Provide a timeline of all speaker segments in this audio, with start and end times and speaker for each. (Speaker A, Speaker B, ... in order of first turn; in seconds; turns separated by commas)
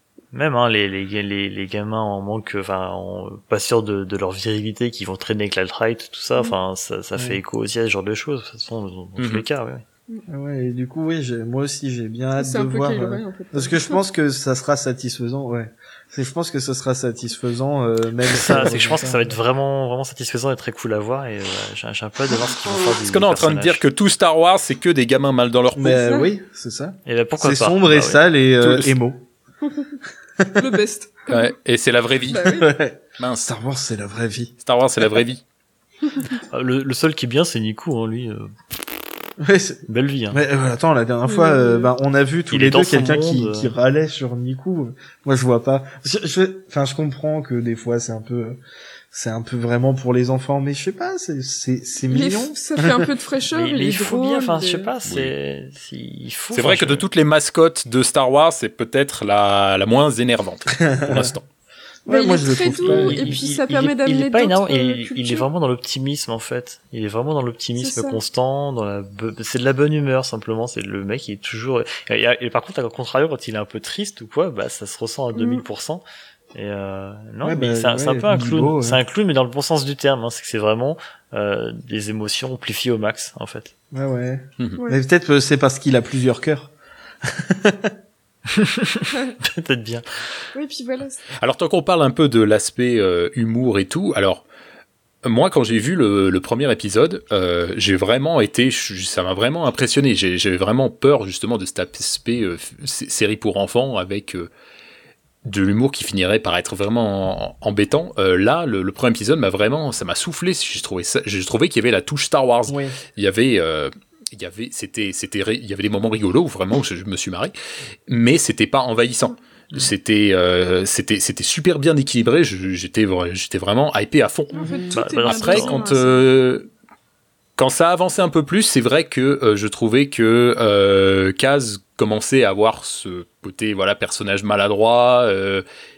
Speaker A: 0.3-9.8, Speaker B: 9.2-9.4, Speaker C: 10.3-19.3, Speaker D: 12.4-14.0, Speaker A: 18.3-23.8, Speaker B: 23.0-26.0, Speaker C: 25.7-29.3, Speaker D: 25.9-26.3, Speaker A: 27.1-28.9, Speaker C: 30.4-30.7, Speaker D: 30.6-31.5, Speaker B: 31.3-32.5, Speaker D: 32.3-32.7, Speaker C: 32.4-34.5, Speaker B: 33.2-33.5, Speaker B: 34.6-35.4, Speaker A: 36.5-38.5, Speaker C: 39.4-48.6, Speaker A: 39.9-40.4, Speaker D: 41.3-41.9, Speaker A: 42.5-43.8, Speaker C: 49.1-53.0, Speaker D: 52.1-54.9, Speaker A: 53.5-57.0, Speaker B: 55.0-55.3, Speaker B: 56.5-61.5, Speaker C: 60.8-61.3, Speaker C: 62.0-63.3, Speaker D: 62.1-65.5, Speaker A: 62.8-76.0, Speaker D: 67.8-68.2, Speaker D: 75.3-75.6, Speaker A: 76.5-83.7, Speaker C: 77.4-79.0, Speaker C: 83.9-86.7, Speaker C: 87.2-87.9, Speaker A: 88.5-90.0, Speaker D: 90.5-91.2, Speaker B: 91.4-94.5, Speaker B: 95.2-104.5, Speaker B: 105.5-117.5, Speaker C: 112.7-113.0, Speaker B: 118.1-126.7, Speaker D: 124.5-126.3, Speaker C: 124.5-124.9, Speaker A: 125.0-125.8, Speaker B: 127.6-135.7